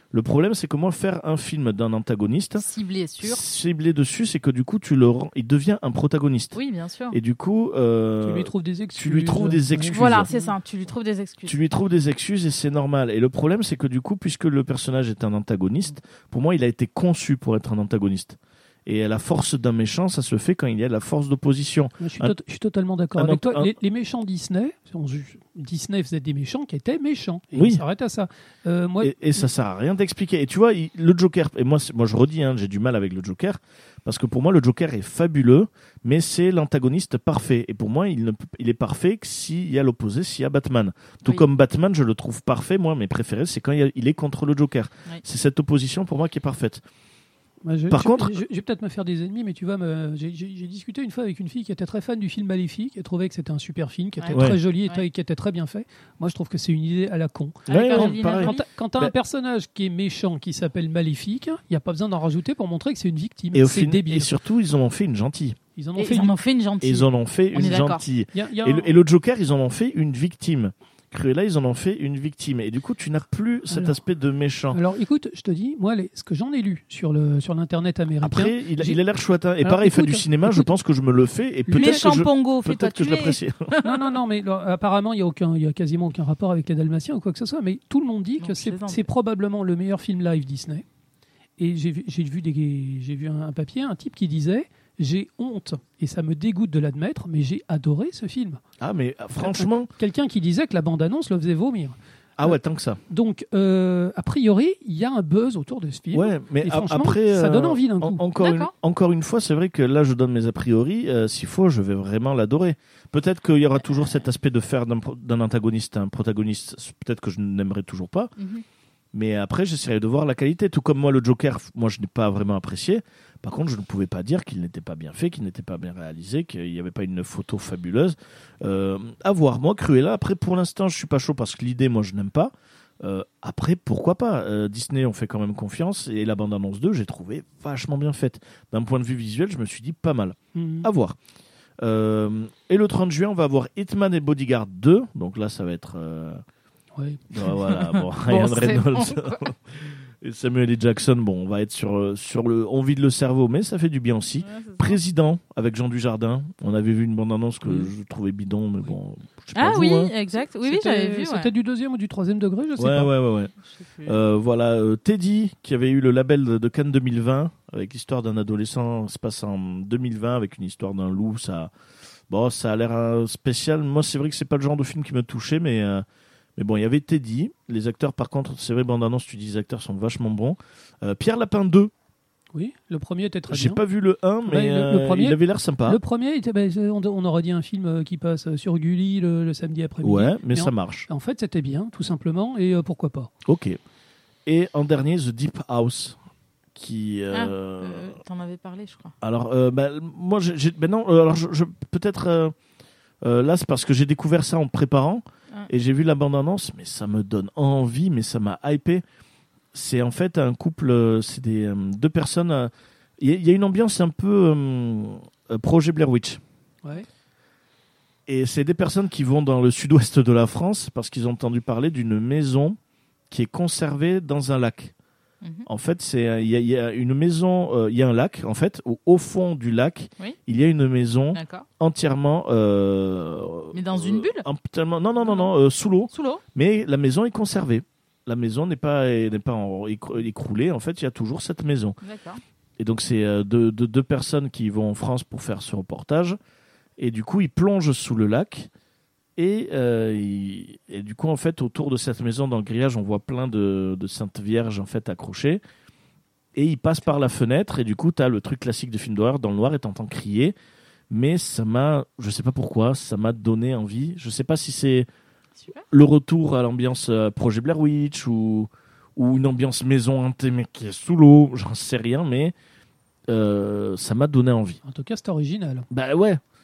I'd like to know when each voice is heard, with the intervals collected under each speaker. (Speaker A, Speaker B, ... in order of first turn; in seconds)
Speaker A: 0.1-2.6, 3.2-6.6, 7.1-10.3, 11.4-22.4, 23.1-23.7, 27.6-27.8, 29.0-46.8, 47.9-48.4, 54.3-54.6, 57.7-59.1, 63.5-65.6, 66.8-74.8, 78.2-83.7, 98.8-99.9, 102.4-103.0, 106.1-118.3, 119.1-141.2, 141.8-146.4, 147.3-160.1, 162.8-163.5, 164.0-171.7, 172.3-176.1, 176.6-181.9, 183.5-186.0, 190.0-191.1, 193.4-193.8, 194.4-196.2, 196.7-198.2, 199.2-202.6, 203.2-209.0, 209.7-216.4, 218.3-222.8, 223.3-224.9, 225.7-242.0, 242.8-246.4, 247.0-248.7, 249.4-255.6, 256.6-260.6, 261.1-265.1, 265.9-272.6, 273.3-274.8, 275.9-276.4
Speaker B: 2.6-3.4, 6.5-7.2, 9.9-11.6, 54.2-55.0, 57.7-58.6, 66.0-68.0, 81.8-84.0, 88.4-89.1, 108.4-108.7, 118.4-118.6, 147.7-149.5, 154.4-155.0, 159.6-161.5, 163.7-164.2, 197.3-199.1, 225.4-225.7, 231.3-231.7, 233.7-234.4, 236.1-236.4, 242.0-242.4, 265.6-265.9
Speaker C: 8.2-10.5, 22.0-29.4, 47.6-64.3, 65.8-66.3, 68.3-68.9, 73.7-74.0, 74.7-79.0, 79.6-80.7, 81.7-82.0, 83.8-90.8, 91.6-98.6, 99.4-102.6, 103.1-108.2, 140.6-140.9, 146.9-147.2, 157.6-157.9, 160.6-163.1, 182.5-183.8, 184.4-193.3, 274.9-275.9